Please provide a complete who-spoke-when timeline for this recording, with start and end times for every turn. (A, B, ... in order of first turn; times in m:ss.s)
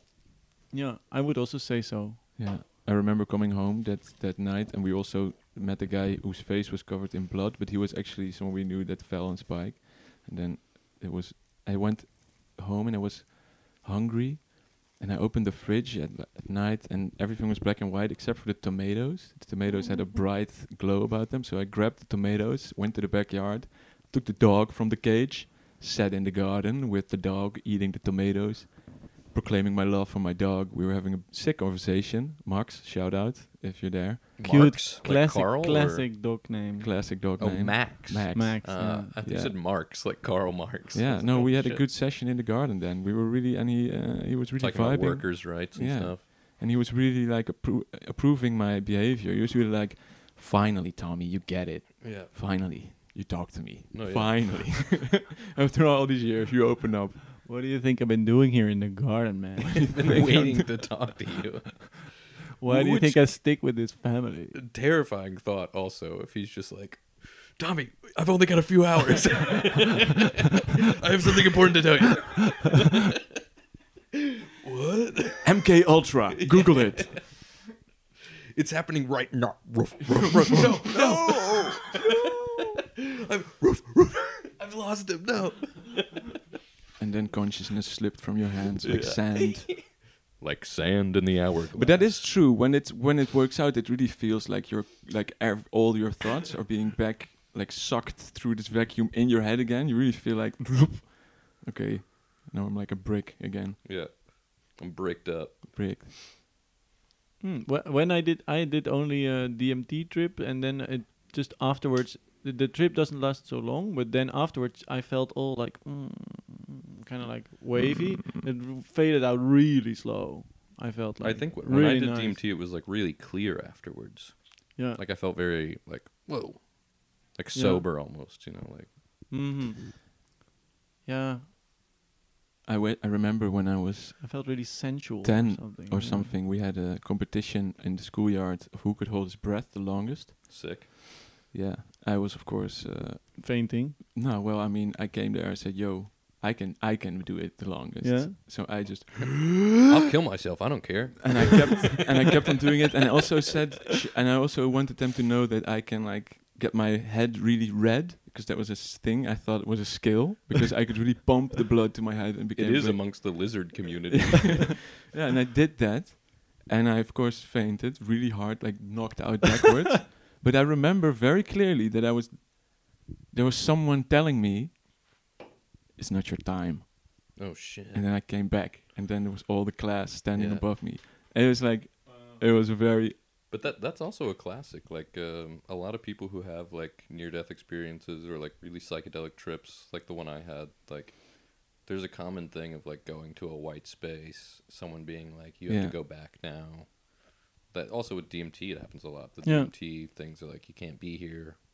0:00.7-0:02.2 A
0:02.4-0:34.3 B
0:34.4-0:36.1 C
0:34.4-0:37.0 A
0:36.8-0:39.6 B
0:37.4-0:41.9 C
0:38.3-0:39.1 A
0:40.9-0:57.2 B
0:44.6-0:46.2 C
0:52.0-0:52.9 C
0:53.9-0:54.9 C
0:57.4-1:00.0 A
0:59.8-1:00.6 B
0:59.9-1:02.2 C
1:02.6-1:04.6 A
1:02.7-1:03.1 B
1:02.7-1:03.2 C
1:04.6-1:13.0 C
1:14.4-1:17.2 C
1:15.4-1:17.3 B
1:18.5-1:26.3 C
1:20.2-1:21.8 B
1:27.0-1:29.8 B
1:28.8-1:29.8 C
1:30.4-1:32.4 C
1:31.7-1:43.8 B
1:43.8-1:46.0 C
1:45.7-1:46.1 B
1:47.4-2:02.4 A
1:57.8-1:58.4 B
2:01.2-2:09.0 C
2:07.5-2:07.8 A
2:09.3-2:10.0 A
2:11.1-2:11.4 A
2:12.6-2:14.4 B
2:14.2-2:16.3 A
2:15.2-2:20.8 B
2:20.5-2:20.9 C
2:21.5-2:29.6 B
2:23.4-2:24.0 A
2:28.0-2:28.4 A
2:29.7-2:32.0 C
2:31.2-2:54.8 B
2:42.6-2:44.9 C
2:56.0-2:57.4 B
2:57.4-2:58.1 C
2:57.9-3:03.2 B
3:00.4-3:00.7 C
3:03.5-3:21.6 C
3:15.7-3:16.0 B
3:19.4-3:19.7 A